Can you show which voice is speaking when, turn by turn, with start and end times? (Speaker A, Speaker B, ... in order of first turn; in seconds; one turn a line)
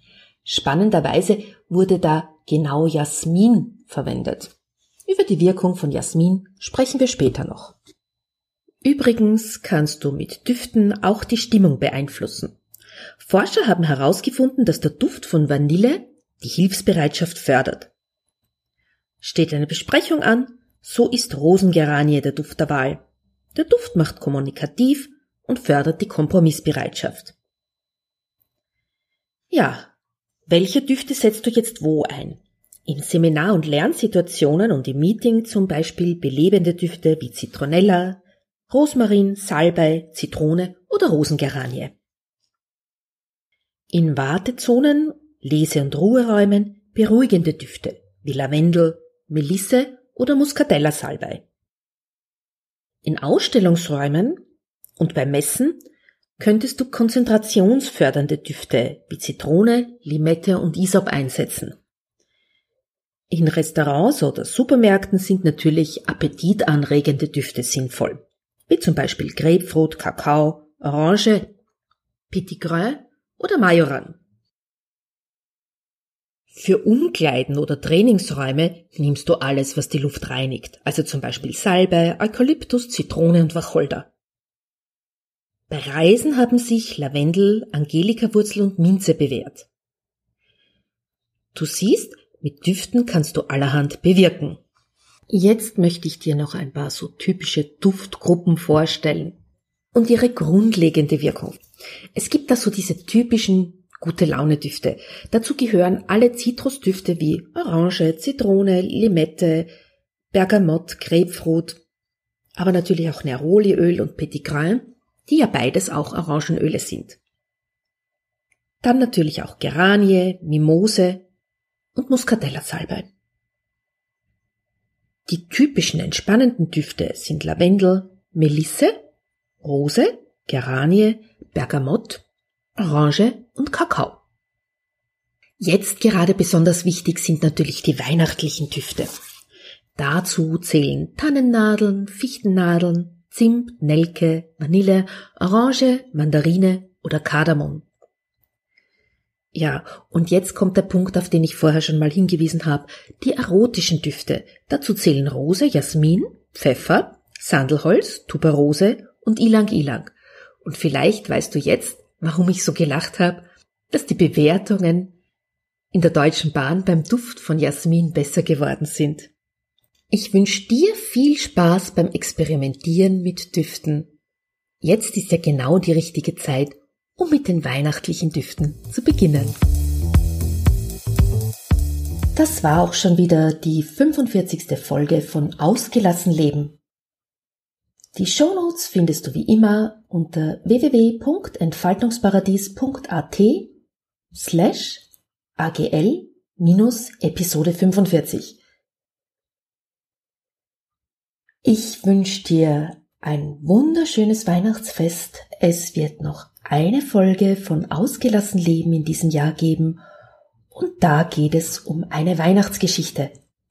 Speaker A: 0.5-4.5
Speaker A: 5.1-7.8
Speaker A: 8.8-12.6
Speaker A: 13.2-17.9
Speaker A: 19.2-23.0
Speaker A: 23.6-27.4
Speaker A: 29.5-29.9
Speaker A: 30.5-42.0
Speaker A: 43.9-51.5
Speaker A: 53.0-54.4
Speaker A: 55.0-55.8
Speaker A: 56.4-61.8
Speaker A: 63.3-71.5
Speaker A: 72.3-74.2
Speaker A: 76.5-84.1
Speaker A: 85.7-89.7
Speaker A: 91.5-94.6
Speaker A: 95.3-99.4
Speaker A: 99.9-101.6
Speaker A: 102.2-109.7
Speaker A: 110.3-111.8
Speaker A: 112.6-117.2
Speaker A: 118.8-121.2
Speaker A: 122.0-123.1
Speaker A: 125.3-128.9
Speaker A: 129.6-132.2
Speaker A: 132.8-134.2
Speaker A: 135.6-139.1
Speaker A: 140.0-147.9
Speaker A: 149.6-165.2
Speaker A: 165.9-169.3
Speaker A: 170.1-174.1
Speaker A: 174.8-179.6
Speaker A: 182.4-186.8
Speaker A: 188.2-193.7
Speaker A: 194.3-195.1
Speaker A: 195.6-198.6
Speaker A: 201.6-210.0
Speaker A: 210.7-213.3